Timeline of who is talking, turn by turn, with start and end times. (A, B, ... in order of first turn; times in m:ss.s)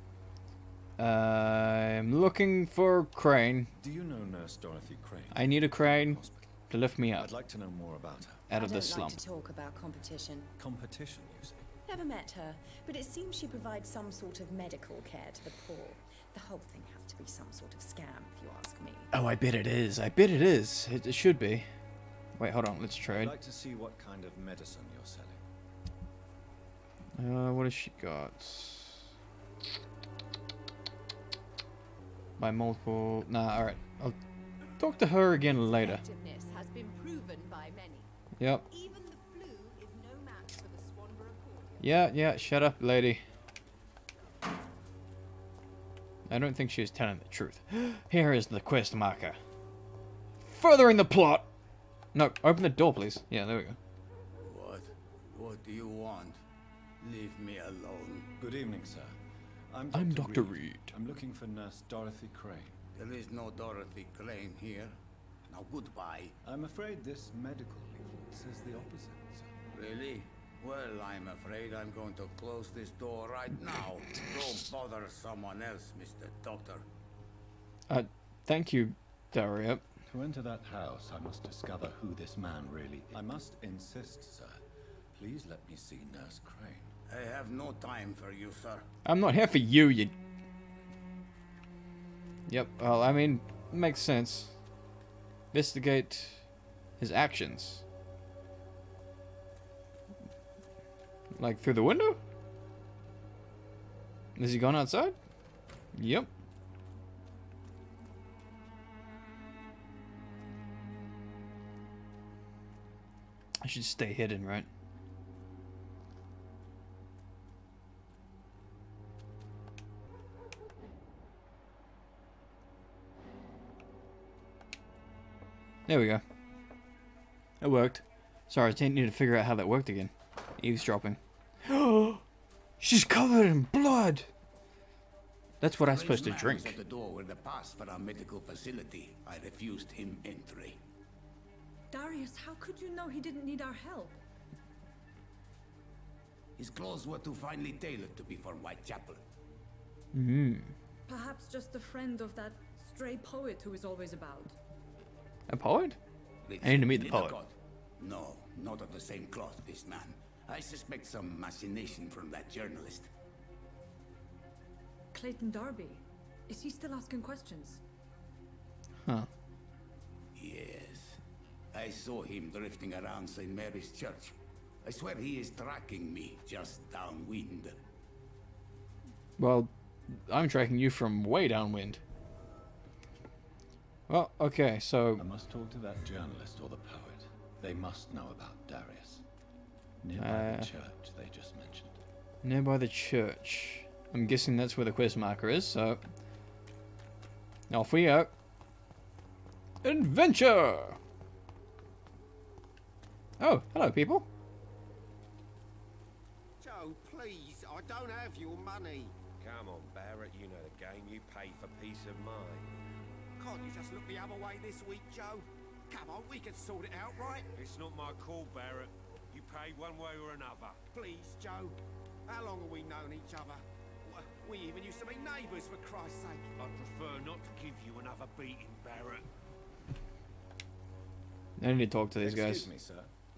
0:01.0-0:03.7 A
0:03.7-0:06.6 B
0:05.3-0:07.3 A
0:07.2-0:08.5 B
0:08.5-0:09.2 A
0:08.5-0:10.5 C
0:10.6-0:11.7 B
0:11.9-0:19.1 C
0:19.1-0:21.7 A
0:22.4-0:23.3 A
0:23.1-0:25.4 B
0:27.2-0:29.1 A
0:32.4-0:34.2 A
0:34.8-0:36.0 A
0:35.5-0:38.1 C
0:38.4-0:38.7 A
0:38.7-0:42.1 C
0:41.8-0:43.2 A
0:46.3-0:49.4 A
0:50.4-0:51.5 A
0:52.1-0:53.8 A
0:54.4-0:56.4 D
0:57.0-0:58.3 D
0:58.4-0:59.2 B
0:59.7-1:02.8 B
0:59.9-1:00.9 A
1:03.0-1:06.4 D
1:06.4-1:09.5 B
1:09.7-1:16.8 D
1:17.9-1:19.8 A
1:20.1-1:24.6 B
1:25.1-1:26.9 B
1:27.1-1:28.9 D
1:29.0-1:30.1 A
1:32.5-1:34.5 A
1:35.5-1:36.4 A
1:37.0-1:37.8 A
1:41.4-1:42.2 A
1:44.4-1:45.2 A
1:46.0-1:46.3 A
1:53.6-1:54.7 A
2:05.9-2:06.2 A
2:07.6-2:12.2 A
2:12.8-2:14.3 A
2:15.6-2:16.8 A
2:15.8-2:20.8 D
2:21.9-2:24.2 E
2:26.6-2:29.2 D
2:30.1-2:30.7 A
2:31.1-2:34.6 E
2:35.5-2:36.0 A
2:36.4-2:43.1 D
2:36.6-2:37.4 A
2:45.1-2:47.8 E
2:50.3-2:51.2 D
2:51.7-2:57.8 D
2:59.4-3:02.0 A
3:04.1-3:05.2 A
3:05.2-3:09.2 B
3:10.0-3:12.0 B
3:10.2-3:10.7 A
3:12.4-3:16.0 A
3:17.7-3:18.3 A
3:19.8-3:21.0 A
3:23.4-3:24.3 A
3:26.6-3:29.1 F
3:29.4-3:32.7 G
3:33.4-3:37.5 F
3:37.6-3:40.8 G
3:40.9-3:46.5 F
3:46.6-3:49.3 G
3:51.6-3:52.7 A
3:52.2-3:53.1 B